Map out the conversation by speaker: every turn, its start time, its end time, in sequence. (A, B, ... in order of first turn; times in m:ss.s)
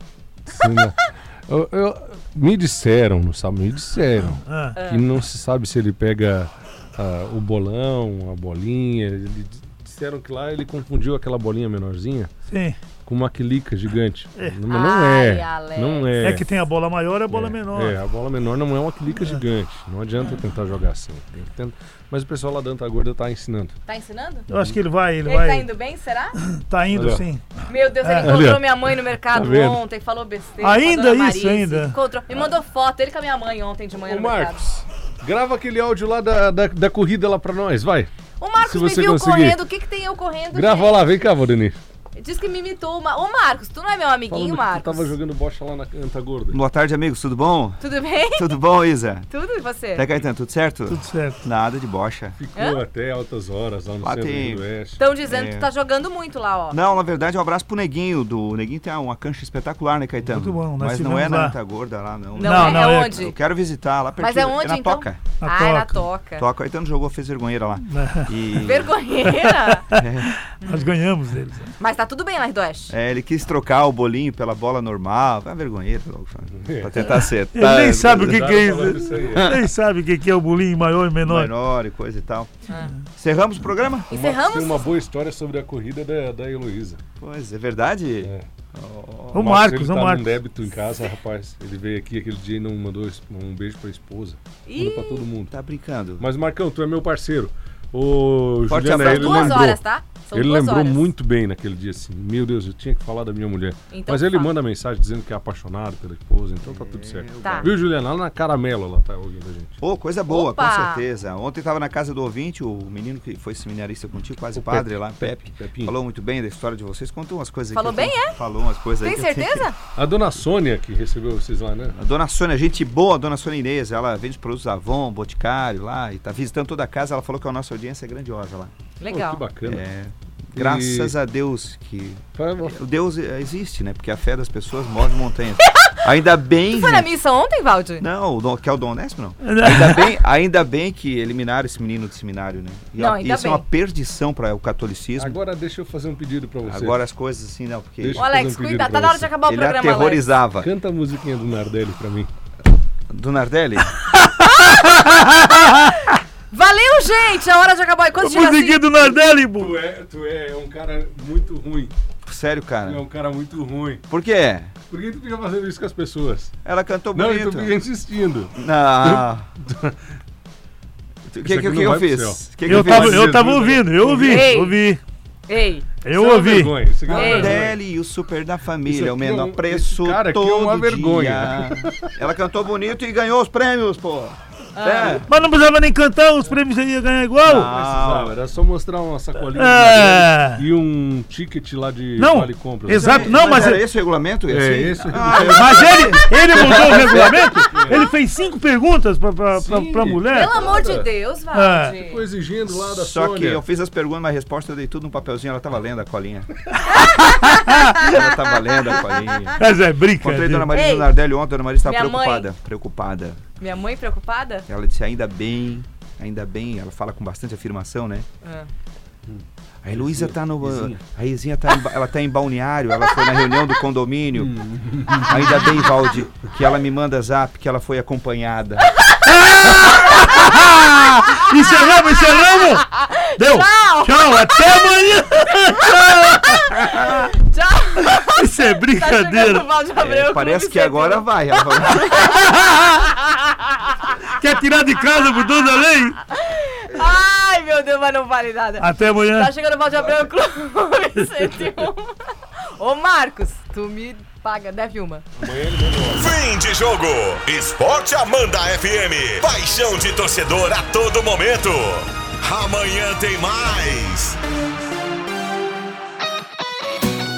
0:00.5-0:12.3 A
0:04.4-0:04.8 B
0:04.8-0:05.0 C
0:12.5-0:12.8 B
0:13.0-0:16.4 A
0:14.7-0:16.1 C
0:16.2-0:18.0 B
0:17.3-0:23.7 A
0:23.9-0:24.4 C
0:24.5-0:25.7 B
0:25.2-0:26.4 C
0:26.4-0:28.3 B
0:26.9-0:27.2 A
0:27.7-0:34.6 C
0:28.2-0:29.8 A
0:30.6-0:32.0 B
0:34.0-0:39.6 A
0:38.4-0:41.0 C
0:40.5-0:41.8 A
0:42.2-0:45.1 C
0:44.3-0:46.6 A
0:46.5-0:47.8 D
0:47.8-0:48.5 C
0:48.4-0:49.2 D
0:49.3-0:50.1 C
0:50.0-0:52.4 D
0:50.9-0:51.4 B
0:52.4-0:55.0 A
0:54.0-0:54.6 D
0:55.0-0:56.8 C
0:55.2-0:55.7 D
0:56.7-1:05.2 D
1:00.3-1:01.6 B
1:02.4-1:03.4 C
1:02.4-1:03.2 B
1:04.2-1:06.5 C
1:05.4-1:06.0 B
1:06.4-1:09.0 D
1:07.9-1:08.3 B
1:08.6-1:10.0 C
1:09.2-1:11.7 B
1:09.9-1:10.3 D
1:10.6-1:10.9 C
1:11.8-1:12.9 C
1:12.9-1:19.6 D
1:16.5-1:17.2 A
1:17.5-1:21.5 B
1:18.1-1:19.6 A
1:21.2-1:24.1 D
1:24.1-1:24.9 C
1:24.1-1:27.0 A
1:27.2-1:29.4 D
1:29.3-1:30.4 B
1:29.3-1:35.5 A
1:34.6-1:35.2 C
1:35.5-1:36.3 D
1:36.2-1:39.8 A
1:38.7-1:39.7 D
1:38.8-1:41.0 C
1:40.3-1:49.8 A
1:43.9-1:44.5 C
1:46.6-1:47.7 D
1:47.4-1:47.7 C
1:49.8-1:59.7 D
1:50.3-1:51.0 C
1:54.5-1:55.9 A
1:57.7-1:58.4 C
1:59.0-1:59.8 C
1:59.9-2:02.0 A
2:01.9-2:08.7 D
2:09.0-2:09.4 C
2:09.0-2:09.8 A
2:09.6-2:17.1 D
2:10.5-2:11.1 A
2:12.4-2:12.8 A
2:15.7-2:16.0 C
2:16.6-2:18.0 C
2:18.0-2:25.3 D
2:19.4-2:20.1 B
2:23.0-2:23.6 C
2:25.2-2:27.0 A
2:26.6-2:28.2 D
2:28.0-2:29.3 A
2:28.2-2:30.2 C
2:29.4-2:30.7 D
2:30.6-2:32.3 A
2:33.1-2:33.9 D
2:34.2-2:35.9 B
2:34.6-2:38.8 C
2:38.2-2:39.7 B
2:39.4-2:41.9 A
2:42.2-2:43.0 D
2:42.8-2:44.0 A
2:44.1-2:44.7 D
2:44.9-2:46.5 A
2:46.6-2:47.7 D
2:47.1-2:50.0 A
2:48.5-2:49.5 D
2:51.3-2:53.4 D
2:51.4-2:54.5 A
2:52.7-2:55.0 B
2:54.2-2:54.7 C
2:55.5-2:55.8 C
2:56.0-2:56.8 B
2:56.1-2:57.8 A
2:57.1-3:05.3 D
2:57.1-2:57.6 C
2:58.8-3:02.1 A
3:04.7-3:05.2 C
3:05.3-3:07.7 B
3:07.4-3:08.3 D
3:07.5-3:13.6 A
3:09.4-3:10.6 B
3:12.2-3:13.8 B
3:12.9-3:18.0 D
3:14.5-3:18.1 A
3:15.3-3:20.5 B
3:19.5-3:21.1 A
3:20.3-3:22.2 C
3:21.5-3:22.0 B
3:22.0-3:23.6 A
3:22.7-3:27.2 D
3:27.0-3:28.1 B
3:27.0-3:29.4 C
3:27.9-3:29.6 D
3:29.6-3:30.7 B
3:30.2-3:33.4 D
3:30.7-3:31.1 C
3:31.8-3:32.5 C
3:33.6-3:34.7 C
3:34.7-3:38.2 D
3:38.4-3:38.7 C
3:39.3-3:41.0 A
3:39.8-3:44.6 D
3:44.3-3:45.5 A
3:45.2-3:48.9 D
3:49.0-3:50.7 C
3:49.3-3:52.8 B
3:52.6-3:54.8 C
3:53.4-3:57.0 B
3:55.6-4:04.1 C
3:58.0-3:59.6 B
4:00.0-4:02.4 D
4:02.4-4:02.9 B
4:04.4-4:06.2 B
4:06.3-4:15.3 C
4:06.9-4:07.2 D
4:08.8-4:09.5 B
4:09.9-4:10.3 D
4:15.4-4:16.4 A
4:16.1-4:24.4 E